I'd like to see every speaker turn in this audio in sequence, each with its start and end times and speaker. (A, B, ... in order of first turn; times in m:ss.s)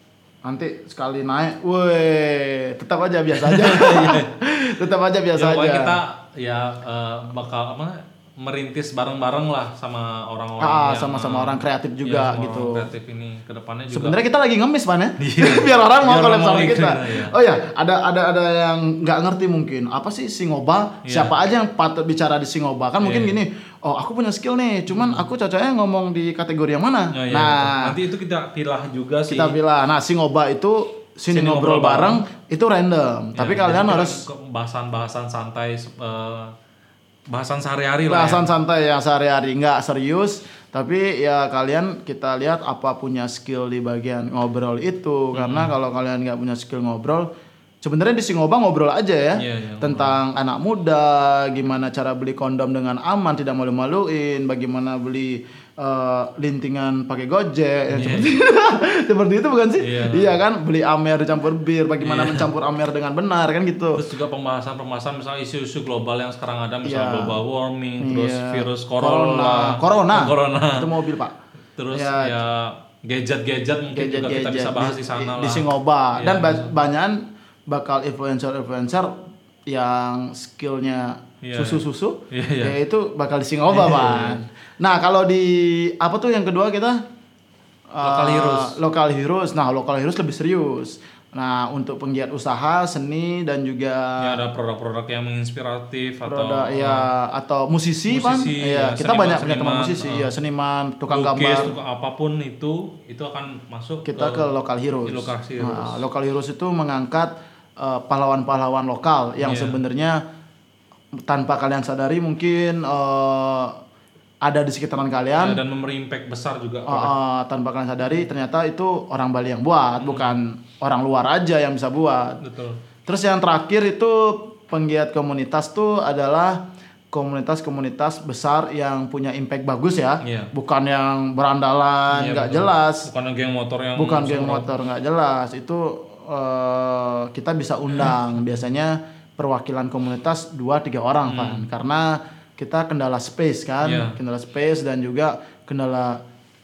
0:00.4-0:06.0 A
0:03.4-0:04.3 B
0:05.4-0:14.2 B
0:10.6-0:12.9 A
0:13.9-0:27.9 A
0:15.2-0:17.3 B
0:21.0-0:21.3 B
0:23.0-0:23.4 B
0:24.9-0:25.2 B
0:27.1-0:29.6 B
0:29.3-0:34.2 A
0:31.3-0:32.2 B
0:33.4-0:36.5 B
0:37.3-0:38.4 B
0:38.1-0:47.3 A
0:45.3-0:45.7 B
0:47.8-1:04.0 A
0:49.4-0:50.2 B
0:57.9-0:58.3 B
0:59.8-1:00.4 B
1:02.0-1:02.5 B
1:04.0-1:10.9 B
1:06.8-1:07.4 A
1:08.0-1:11.3 A
1:11.8-1:16.7 B
1:11.9-1:12.4 A
1:13.9-1:19.1 A
1:19.7-1:27.0 A
1:21.4-1:22.7 B
1:23.7-1:24.4 B
1:27.9-1:34.4 A
1:28.0-1:28.8 B
1:34.2-1:37.1 B
1:36.2-1:41.8 A
1:38.1-1:40.3 B
1:41.1-1:44.5 B
1:44.0-1:50.2 A
1:45.0-1:46.0 B
1:49.4-1:49.8 B
1:51.2-1:53.8 A
1:54.4-1:55.6 A
1:55.4-1:57.1 B
1:56.9-2:02.4 A
2:00.0-2:00.4 B
2:02.4-2:02.8 B
2:03.0-2:06.6 A
2:07.1-2:13.1 A
2:10.2-2:10.5 B
2:12.1-2:14.7 B
2:14.0-2:26.2 A
2:21.2-2:21.6 B
2:23.8-2:24.2 B